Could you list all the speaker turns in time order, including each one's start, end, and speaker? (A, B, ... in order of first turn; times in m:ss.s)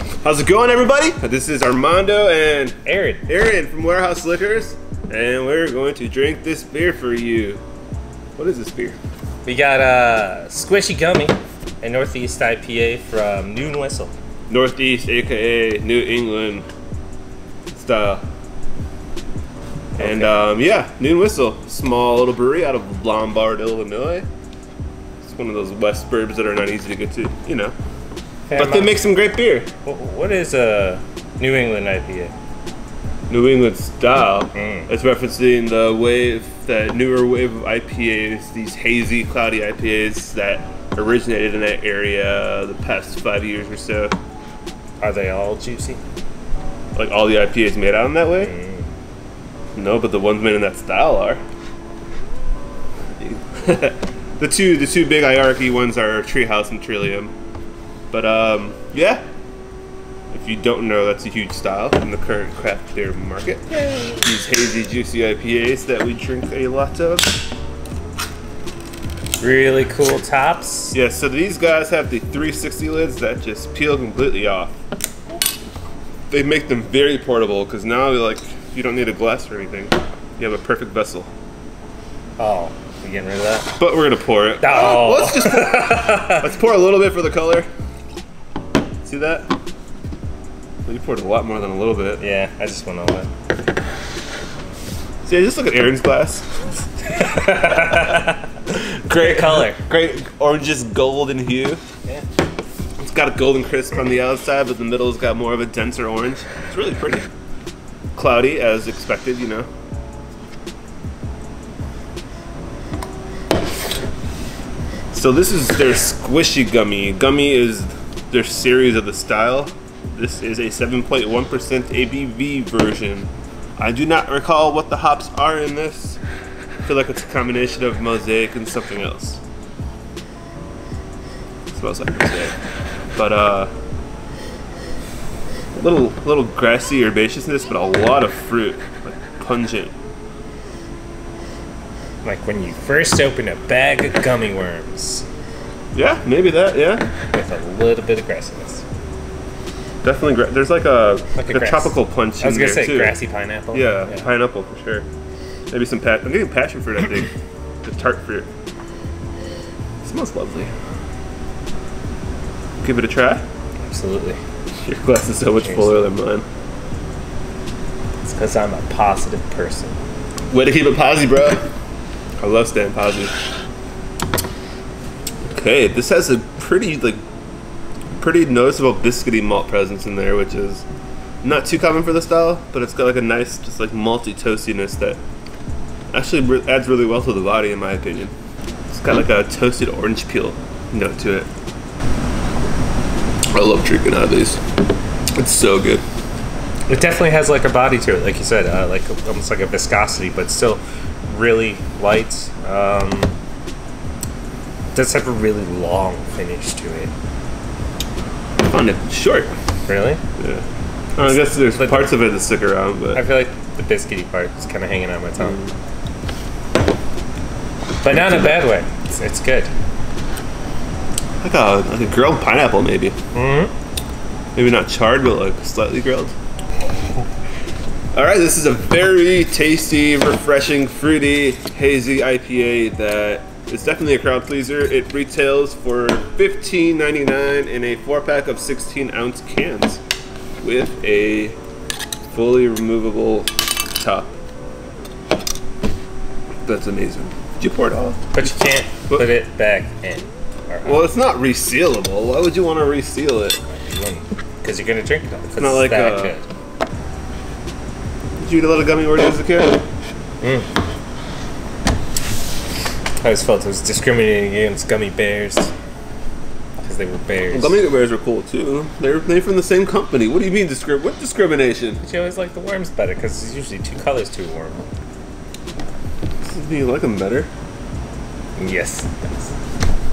0:00.2-0:07.6 A
0:02.8-0:03.2 B
0:08.4-0:09.0 A
0:09.4-0:14.1 B
0:14.5-0:16.7 A
0:17.7-0:18.2 A
0:20.0-0:24.3 A
0:20.0-0:20.3 B
0:25.2-0:27.8 A
0:28.5-0:29.0 B
0:28.5-0:29.7 A
0:29.8-0:32.3 B
0:33.3-0:44.1 A
0:34.5-0:34.9 B
0:45.0-0:46.0 B
0:47.0-0:48.5 A
0:48.4-0:48.9 B
0:49.8-0:51.4 A
0:53.2-0:57.3 A
0:58.1-0:59.2 A
1:00.3-1:07.3 A
1:09.4-1:11.0 B
1:10.9-1:14.8 A
1:16.3-1:21.3 A
1:22.4-1:23.8 B
1:23.8-1:27.7 A
1:24.6-1:26.4 B
1:29.0-1:29.5 A
1:30.9-1:32.2 A
1:32.2-1:33.3 B
1:35.2-1:36.5 A
1:37.1-1:38.5 B
1:38.7-1:41.8 A
1:39.1-1:39.8 B
1:43.0-1:47.3 A
1:48.1-1:49.7 A
1:55.1-2:06.2 A
2:06.8-2:09.4 A
2:11.7-2:12.5 A
2:13.2-2:13.7 A
2:15.8-2:19.9 A
2:22.2-2:25.2 B
2:25.9-2:27.1 A
2:27.3-2:28.8 B
2:30.0-2:33.2 A
2:31.3-2:34.3 B
2:33.7-2:35.1 A
2:35.7-2:37.3 A
2:37.8-2:38.5 A
2:40.0-2:40.7 A
2:42.8-2:43.4 A
2:43.8-2:44.4 B
2:44.8-2:46.4 A
2:45.6-2:46.0 B
2:48.2-2:50.0 B
2:50.5-2:51.6 A
2:52.4-2:53.3 A
2:55.4-2:57.2 A
2:58.2-3:00.8 A
3:01.4-3:05.2 A
3:06.1-3:08.3 A
3:08.9-3:11.5 A
3:13.5-3:14.6 A
3:15.3-3:16.0 A
3:16.9-3:23.3 B
3:24.9-3:27.1 B
3:28.6-3:29.5 A
3:29.9-3:30.2 B
3:30.4-3:30.6 A
3:31.2-3:33.2 A
3:31.2-3:32.1 B
3:33.2-3:35.6 B
3:38.0-3:39.7 B
3:41.4-3:43.2 A
3:43.3-3:43.7 B
3:44.6-3:46.3 A
3:48.1-4:00.0 A
4:00.6-4:01.6 A
4:02.3-4:04.4 A
4:06.6-4:08.5 A
4:08.3-4:11.1 B
4:10.8-4:13.6 A
4:13.7-4:16.4 B
4:15.6-4:16.4 A
4:18.3-4:19.8 A
4:20.4-4:20.7 B
4:23.2-4:25.7 B
4:26.8-4:27.8 B
4:27.5-4:32.0 A
4:32.0-4:34.8 B
4:36.4-4:37.5 A
4:38.6-4:39.5 B